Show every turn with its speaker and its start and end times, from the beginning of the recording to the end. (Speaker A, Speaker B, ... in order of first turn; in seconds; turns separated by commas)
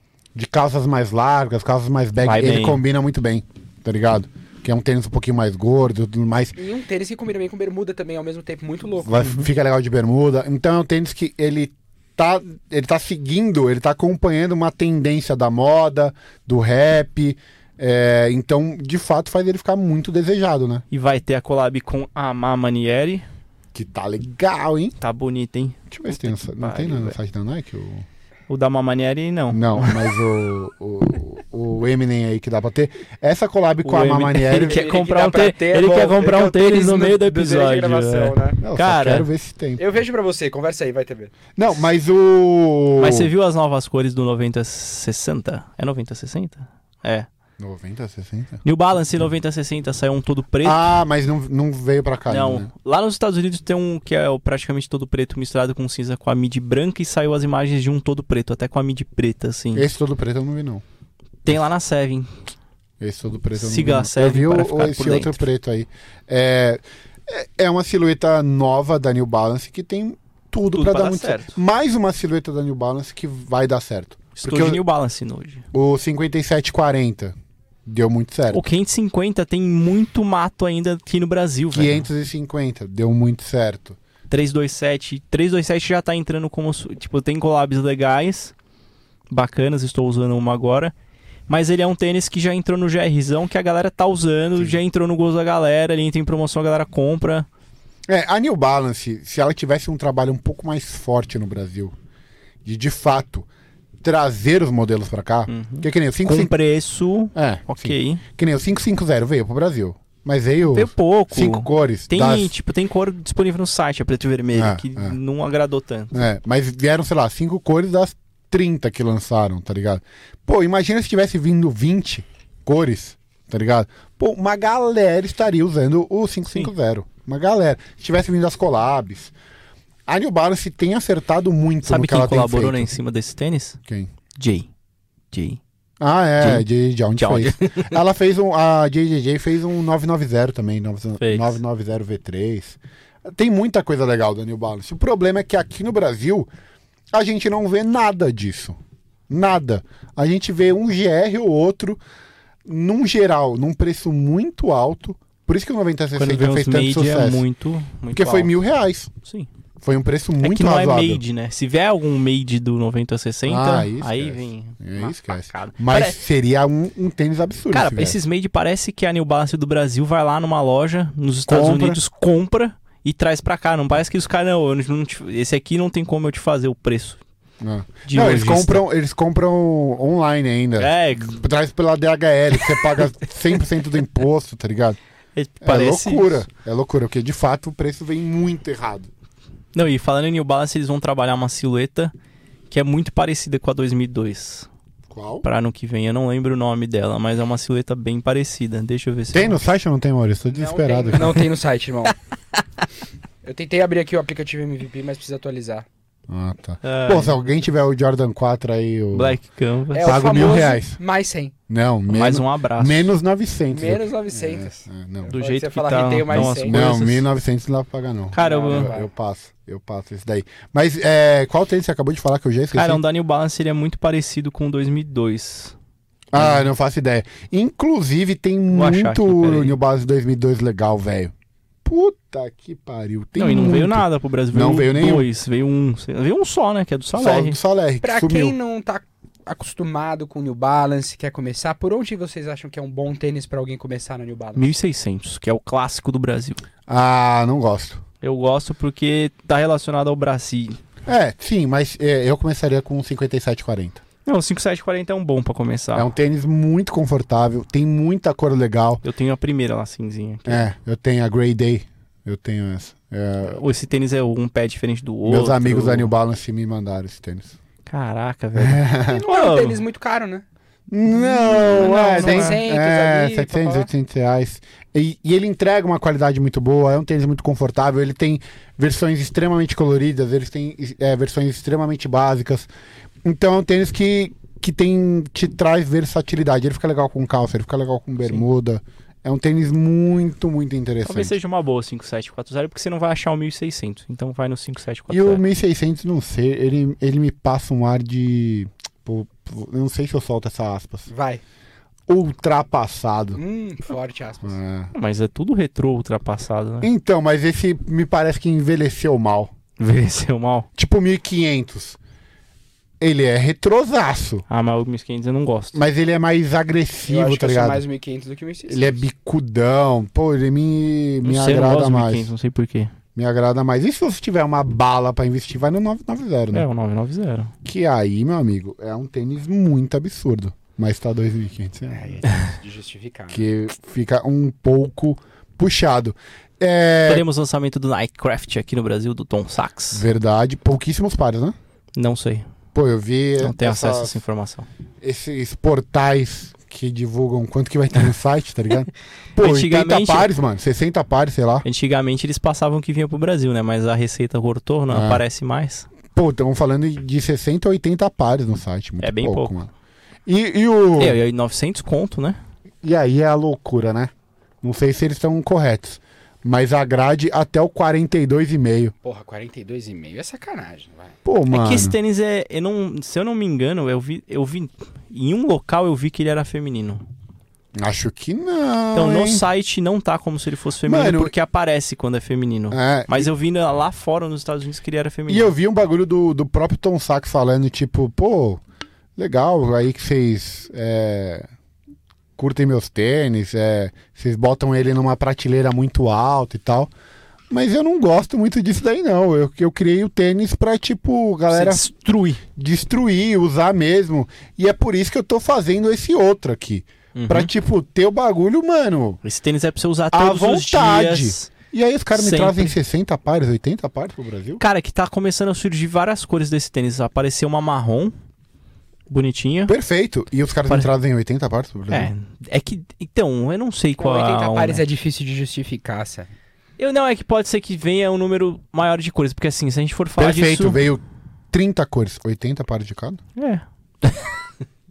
Speaker A: 0.3-6.5, Speaker B: 2.2-2.8, Speaker C: 6.5-9.3, Speaker A: 9.0-20.8, Speaker B: 20.9-23.2, Speaker A: 23.7-24.9, Speaker B: 25.0-27.2, Speaker A: 25.9-28.1, Speaker B: 28.5-30.1, Speaker A: 29.5-34.9, Speaker B: 33.8-39.3, Speaker C: 34.6-38.6, Speaker A: 38.6-39.8, Speaker C: 39.8-41.3, Speaker A: 41.5-43.3, Speaker B: 43.0-47.3, Speaker A: 47.6-48.6, Speaker B: 48.6-51.0, Speaker A: 50.6-52.7, Speaker B: 52.3-59.9, Speaker A: 59.7-60.8, Speaker B: 61.4-62.3, Speaker A: 63.0-74.8, Speaker B: 63.5-65.4, Speaker B: 70.7-71.5, Speaker B: 74.4-75.6, Speaker A: 75.7-77.3, Speaker A: 77.8-78.6, Speaker B: 78.5-82.1, Speaker A: 81.7-84.0, Speaker B: 84.3-88.5, Speaker B: 89.3-90.9, Speaker B: 91.5-97.5, Speaker A: 98.1-101.9, Speaker A: 102.6-103.5, Speaker A: 104.0-106.5, Speaker B: 105.5-108.2, Speaker A: 107.3-112.5, Speaker B: 110.7-116.2, Speaker A: 114.5-115.2, Speaker A: 116.1-129.3, Speaker A: 130.1-132.9, Speaker B: 131.8-133.8, Speaker B: 134.4-134.7, Speaker B: 135.3-135.6, Speaker A: 136.0-146.5, Speaker B: 137.2-138.0, Speaker B: 141.2-141.6, Speaker A: 147.1-148.8, Speaker A: 149.3-152.0, Speaker A: 152.6-157.4, Speaker B: 156.1-158.5, Speaker A: 158.1-159.1, Speaker B: 159.2-159.5, Speaker A: 159.8-161.2, Speaker B: 160.4-166.2, Speaker A: 163.4-168.2, Speaker B: 167.7-177.2, Speaker A: 171.5-172.0, Speaker A: 177.6-185.0, Speaker B: 178.1-178.8, Speaker B: 180.8-181.4, Speaker B: 185.3-186.4, Speaker A: 185.6-189.1, Speaker B: 189.7-192.1, Speaker B: 192.7-194.7, Speaker A: 195.1-195.4, Speaker B: 195.4-199.6, Speaker A: 199.3-201.4, Speaker C: 200.5-202.1, Speaker C: 203.4-205.9, Speaker A: 206.3-209.4, Speaker B: 206.8-207.4, Speaker B: 209.1-210.6, Speaker C: 209.9-211.5, Speaker A: 210.0-211.0, Speaker A: 211.7-215.3, Speaker B: 212.1-213.1, Speaker C: 213.7-216.8, Speaker B: 215.3-217.2, Speaker A: 216.3-223.0, Speaker B: 218.3-218.9, Speaker C: 218.4-219.1, Speaker B: 222.7-225.7, Speaker A: 226.3-231.3, Speaker B: 226.3-226.6, Speaker B: 228.7-229.8, Speaker A: 231.8-235.2, Speaker B: 233.4-237.6, Speaker A: 237.1-238.5, Speaker C: 238.0-244.7, Speaker B: 244.6-246.6, Speaker A: 246.9-248.0, Speaker B: 248.2-250.8, Speaker A: 251.1-254.0, Speaker B: 254.2-256.1, Speaker A: 255.9-259.0, Speaker B: 259.0-260.7, Speaker A: 260.5-263.7, Speaker B: 263.4-266.1, Speaker A: 265.2-267.5, Speaker B: 267.9-269.8, Speaker A: 268.5-269.2, Speaker C: 269.1-270.4, Speaker A: 270.9-282.7, Speaker B: 271.2-272.6, Speaker C: 271.3-273.9, Speaker A: 283.2-291.4, Speaker B: 291.0-295.4, Speaker A: 295.1-301.1, Speaker C: 301.1-301.4, Speaker A: 302.1-303.4, Speaker C: 303.4-304.6, Speaker A: 304.4-304.9, Speaker B: 304.9-306.9, Speaker A: 306.8-309.5, Speaker B: 309.8-310.7, Speaker A: 310.8-312.0, Speaker A: 313.0-314.4, Speaker B: 314.5-315.8, Speaker A: 315.7-317.8, Speaker C: 317.1-319.0, Speaker A: 318.7-322.3, Speaker B: 321.2-322.9, Speaker A: 323.1-326.7, Speaker B: 326.5-327.5, Speaker A: 327.6-332.3, Speaker C: 331.9-333.4, Speaker A: 333.3-337.2, Speaker B: 337.0-340.1, Speaker A: 339.9-341.5, Speaker B: 341.9-342.5, Speaker A: 342.7-344.2, Speaker B: 343.4-344.7, Speaker A: 345.0-351.6, Speaker B: 349.4-350.3, Speaker B: 351.6-355.9, Speaker A: 354.9-355.2, Speaker A: 356.1-359.7, Speaker B: 359.0-359.6, Speaker A: 360.2-361.2, Speaker B: 361.0-362.4, Speaker A: 362.8-364.1, Speaker A: 364.6-368.9, Speaker C: 369.0-371.1, Speaker A: 371.2-371.9, Speaker B: 371.5-377.0, Speaker A: 377.7-379.4, Speaker B: 378.9-385.5, Speaker A: 380.9-381.3, Speaker A: 382.7-383.3, Speaker A: 385.3-388.6, Speaker A: 389.1-391.5, Speaker A: 392.4-396.9, Speaker A: 397.5-401.9, Speaker B: 401.5-402.4, Speaker A: 402.6-409.2, Speaker B: 407.1-407.5, Speaker B: 409.2-411.5, Speaker A: 410.1-414.6, Speaker B: 412.1-412.8, Speaker B: 414.6-418.1, Speaker B: 419.1-419.7, Speaker A: 419.7-422.1, Speaker B: 421.9-424.8, Speaker C: 424.0-426.3, Speaker B: 426.8-430.8, Speaker A: 430.2-433.2, Speaker B: 433.4-434.3